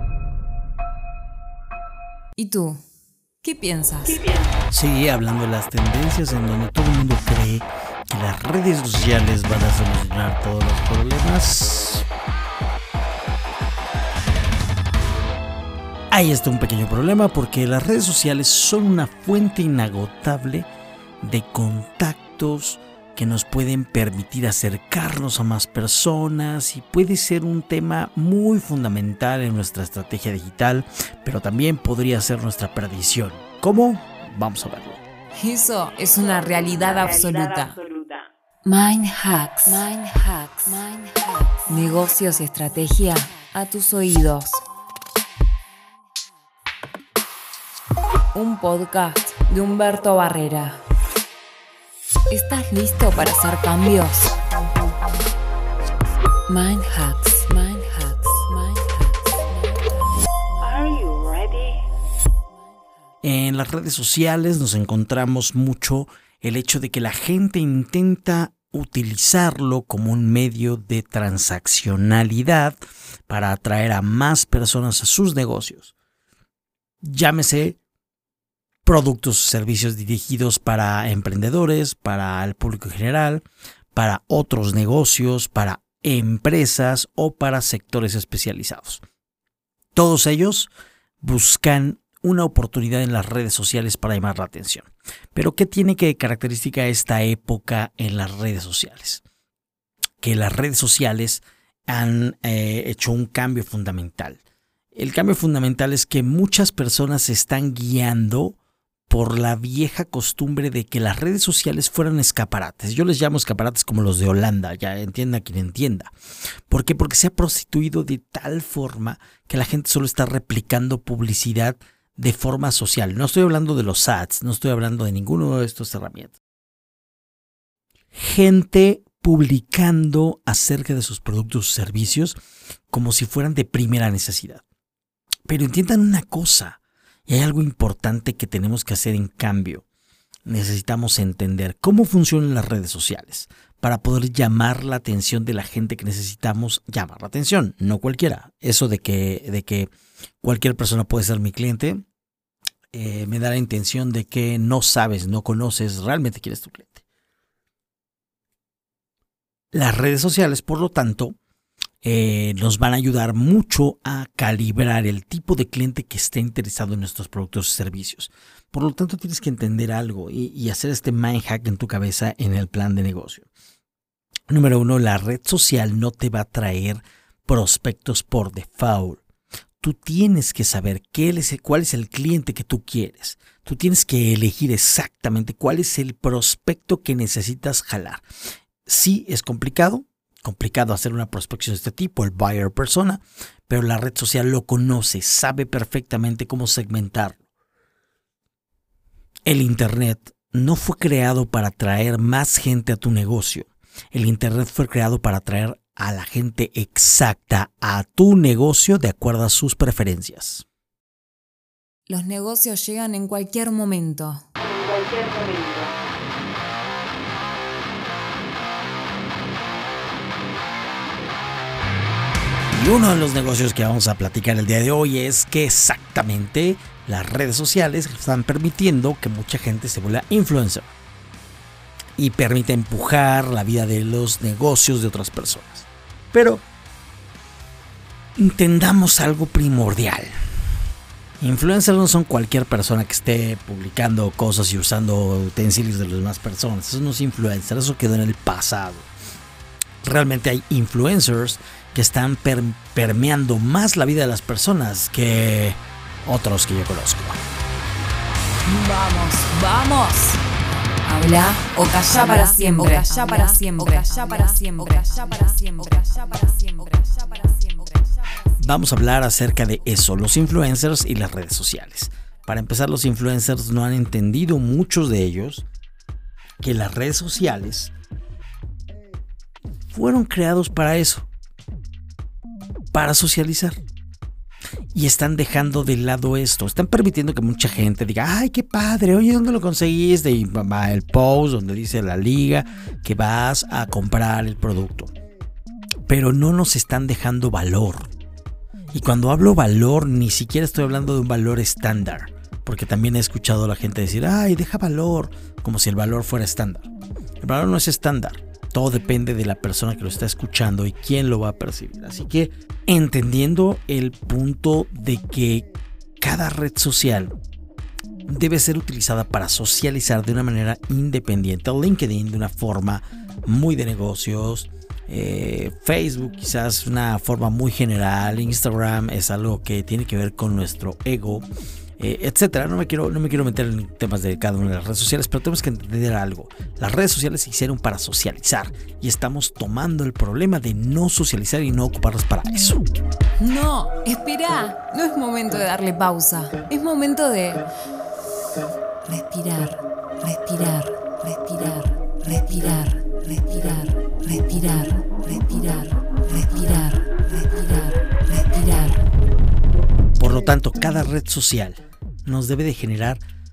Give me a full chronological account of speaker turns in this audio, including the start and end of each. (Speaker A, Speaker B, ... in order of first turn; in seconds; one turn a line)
Speaker A: 2.4-2.8
Speaker A: 3.4-4.2
Speaker B: 4.7-12.1
Speaker B: 16.1-20.7
Speaker B: 21.2-35.0
Speaker A: 35.3-37.8
Speaker C: 36.4-38.3
Speaker A: 38.6-44.6
Speaker A: 48.3-50.8
Speaker A: 52.3-54.3
Speaker A: 56.5-60.0
Speaker C: 60.6-61.8
Speaker B: 63.2-75.9
Speaker B: 77.0-77.8
Speaker B: 78.8-89.0
Speaker B: 89.9-99.2
Speaker B: 100.2-104.4
Speaker B: 104.9-108.6
Speaker B: 109.1-116.1
Speaker B: 116.7-126.4
Speaker B: 128.1-132.3
Speaker B: 132.9-134.6
Speaker B: 135.5-139.8
Speaker B: 140.4-149.9
Speaker B: 150.4-152.0
Speaker B: 152.9-157.0
Speaker B: 159.7-161.3
Speaker B: 162.0-173.5
Speaker B: 174.5-179.2
Speaker B: 179.8-188.2
Speaker B: 188.8-197.4
Speaker B: 199.4-210.6
Speaker A: 212.1-214.4
Speaker C: 214.6-215.9
Speaker B: 222.7-230.9
Speaker B: 232.2-236.6
Speaker B: 238.4-240.3
Speaker B: 241.4-249.1
Speaker B: 250.0-257.4
Speaker A: 258.6-260.4
Speaker A: 261.0-268.2
Speaker B: 268.6-275.6
Speaker B: 276.6-277.9
Speaker B: 279.9-281.3
Speaker B: 282.9-283.8
Speaker B: 284.9-295.1
Speaker B: 296.1-298.1
Speaker B: 298.9-315.7
Speaker B: 316.2-317.3
Speaker B: 318.3-342.8
Speaker A: 343.4-347.6
Speaker A: 349.0-359.0
Speaker B: 360.2-363.2